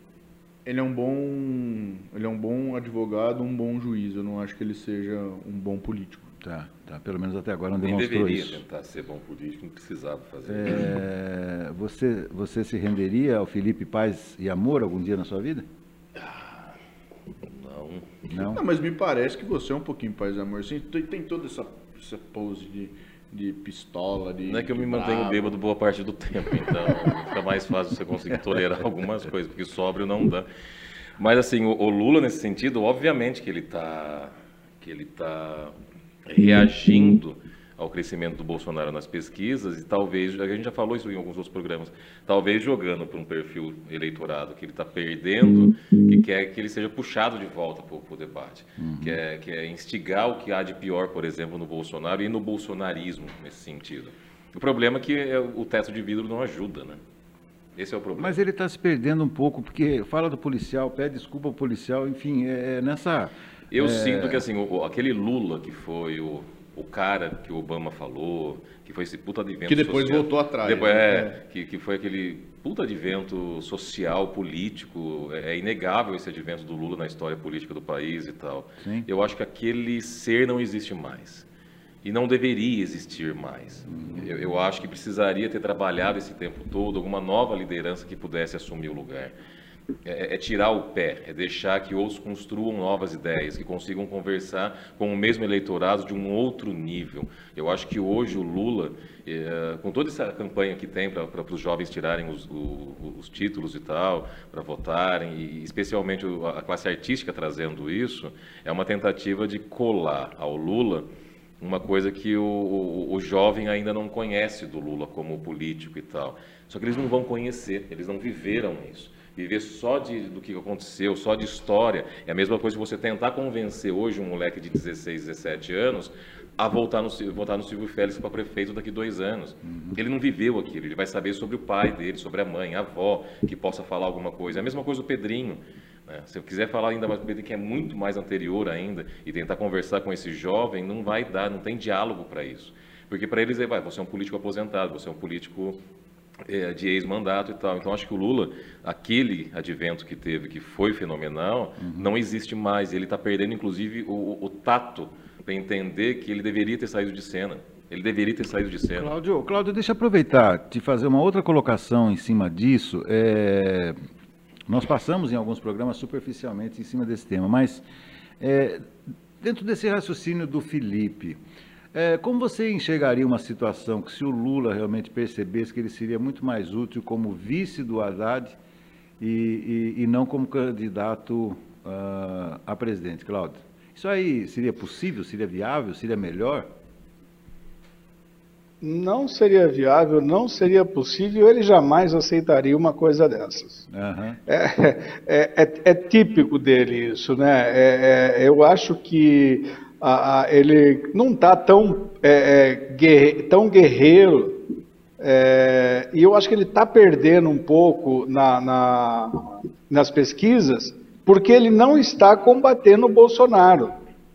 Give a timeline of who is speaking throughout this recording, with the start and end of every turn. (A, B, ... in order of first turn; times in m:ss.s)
0:00.6-0:06.3 A
0:06.4-0:08.6 B
0:07.8-0:10.9 C
0:10.4-0:15.6 B
0:16.2-0:16.7 C
0:17.4-0:18.1 C
0:18.3-0:18.6 B
0:18.4-0:25.5 A
0:24.4-0:30.4 C
0:31.2-0:35.7 C
0:36.2-0:57.0 C
0:48.8-0:49.2 B
0:57.8-0:58.4 C
0:58.1-1:04.4 B
1:03.7-1:21.4 C
1:09.7-1:11.4 A
1:18.8-1:19.1 B
1:22.0-1:29.3 C
1:23.9-1:24.3 B
1:30.0-1:51.0 C
1:51.6-2:25.8 C
2:09.6-2:10.0 B
2:26.4-2:39.1 C
2:31.8-2:32.1 B
2:38.9-2:44.0 B
2:44.7-2:47.8 B
2:48.4-2:51.4 B
2:51.9-2:58.6 B
2:59.2-3:06.7 B
3:08.8-3:13.9 D
3:13.9-3:14.4 B
3:14.5-3:24.6 D
3:25.2-3:34.0 D